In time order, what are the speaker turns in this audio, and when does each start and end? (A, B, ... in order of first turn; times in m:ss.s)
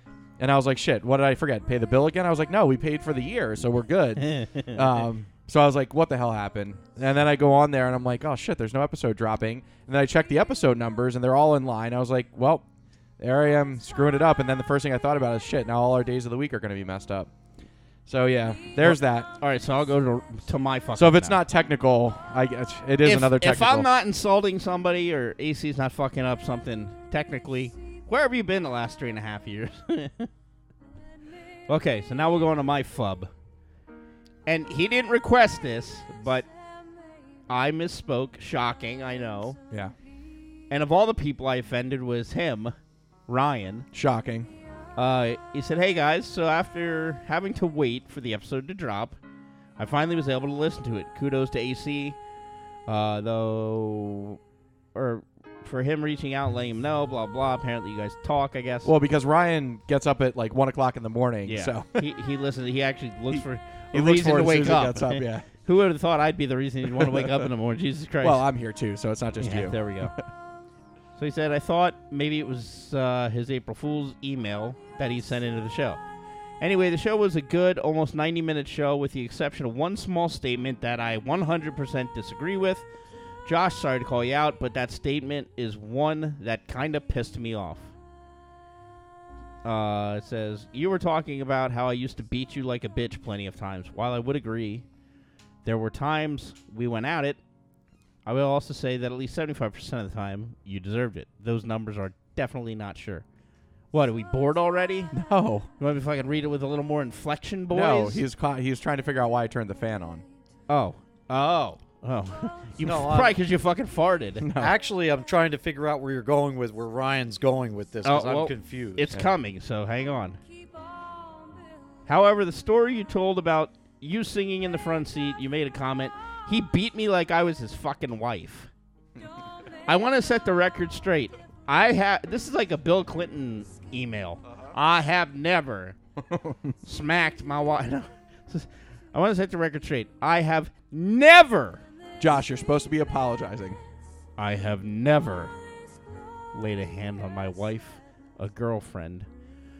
0:00.4-0:12.6 A
0:04.2-0:05.0 B
0:13.2-0:17.3 A
0:18.0-0:19.3 A
0:18.8-0:21.4 B
0:20.9-0:23.9 A
0:23.0-0:30.3 B
0:31.7-0:33.3 B
0:34.4-0:36.5 B
0:37.5-0:39.6 B
0:40.7-0:42.7 B
0:43.3-0:43.9 B
0:43.9-0:44.5 A
0:45.0-0:49.2 B
0:49.8-0:52.2 B
0:52.9-0:54.4 B
0:54.9-0:58.9 B
0:58.8-1:01.9 A
1:01.4-1:08.4 B
1:03.3-1:05.5 A
1:06.9-1:07.4 A
1:08.2-1:10.2 A
1:09.4-1:10.1 B
1:11.2-1:16.0 B
1:16.6-1:22.8 B
1:23.4-1:27.9 B
1:29.6-1:34.8 B
1:35.6-1:37.4 B
1:38.2-1:43.2 B
1:43.9-1:45.1 B
1:45.1-1:45.7 A
1:45.8-1:48.2 B
1:47.7-1:50.2 A
1:50.7-1:54.5 B
1:52.8-1:53.4 C
1:54.4-1:54.7 A
1:54.6-1:59.1 C
1:58.0-2:00.4 B
2:02.1-2:08.7 B
2:09.9-2:16.0 B
2:16.8-2:21.8 B
2:22.2-2:23.8 A
2:24.4-2:25.5 B
2:26.5-2:29.3 B